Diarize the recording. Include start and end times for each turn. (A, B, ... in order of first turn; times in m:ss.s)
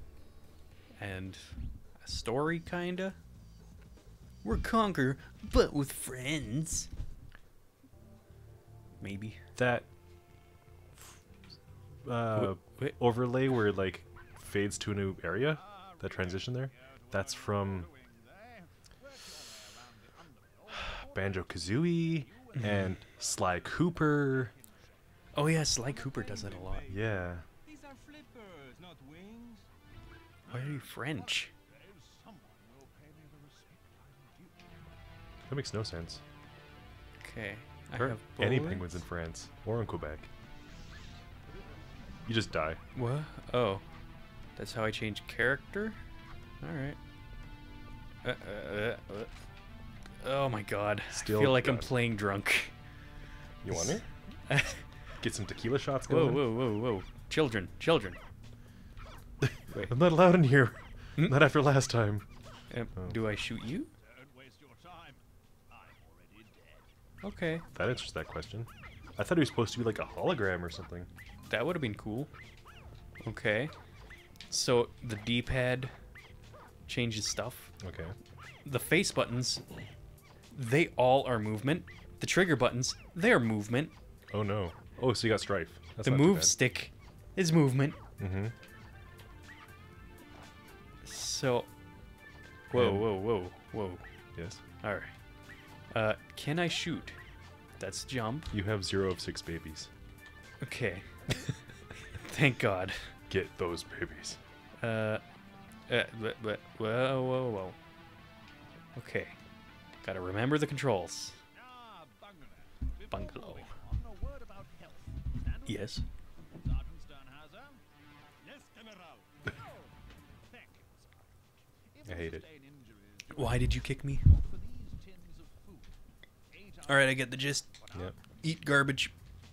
0:01.0-0:03.2 A
0:04.4-0:06.9 A
0:09.0-0:09.4 A
0:09.6-0:09.9 B
0:12.0-0:17.9 B
0:12.4-0:13.0 A
0:19.7-0:20.2 C
0:20.9-0:24.5 B
0:22.6-0:22.9 A
0:25.3-0:27.0 A
0:26.9-0:27.5 B
0:30.5-0:31.5 A
0:32.3-0:34.0 C
0:35.5-0:36.2 B
0:37.2-0:39.0 A
0:38.0-0:40.3 B
0:42.3-0:42.8 B
0:43.0-0:43.8 A
0:44.6-0:46.0 A
0:46.6-0:47.0 A
0:48.2-0:49.3 A
0:50.2-0:52.7 A
0:51.1-0:51.9 B
0:53.6-0:54.0 B
0:53.7-0:54.8 A
0:55.2-0:56.5 B
0:56.1-0:58.2 A
0:59.7-1:02.3 B
1:02.7-1:03.9 A
1:04.4-1:05.2 C
1:05.8-1:06.8 C
1:07.2-1:07.6 A
1:07.7-1:11.1 B
1:11.5-1:12.3 A
1:13.2-1:13.7 A
1:14.5-1:15.9 A
1:16.9-1:17.7 A
1:17.8-1:18.2 B
1:18.6-1:19.6 A
1:20.5-1:23.9 A
1:24.3-1:26.6 B
1:26.0-1:28.0 A
1:28.2-1:28.5 B
1:31.0-1:31.7 A
1:32.7-1:34.0 A
1:32.7-1:33.1 B
1:34.8-1:35.1 A
1:35.9-1:37.2 A
1:37.8-1:38.5 A
1:38.5-1:39.9 B
1:40.6-1:41.1 A
1:42.1-1:43.1 A
1:43.3-1:44.4 B
1:44.8-1:45.2 A
1:45.9-1:47.8 A
1:49.0-1:49.4 A
1:50.0-1:51.4 A
1:53.1-1:53.7 A
1:53.7-1:54.8 C
1:55.7-1:56.0 A
2:02.0-2:02.5 B
2:03.3-2:04.3 A
2:05.2-2:05.7 C
2:06.9-2:07.7 A
2:08.4-2:09.1 A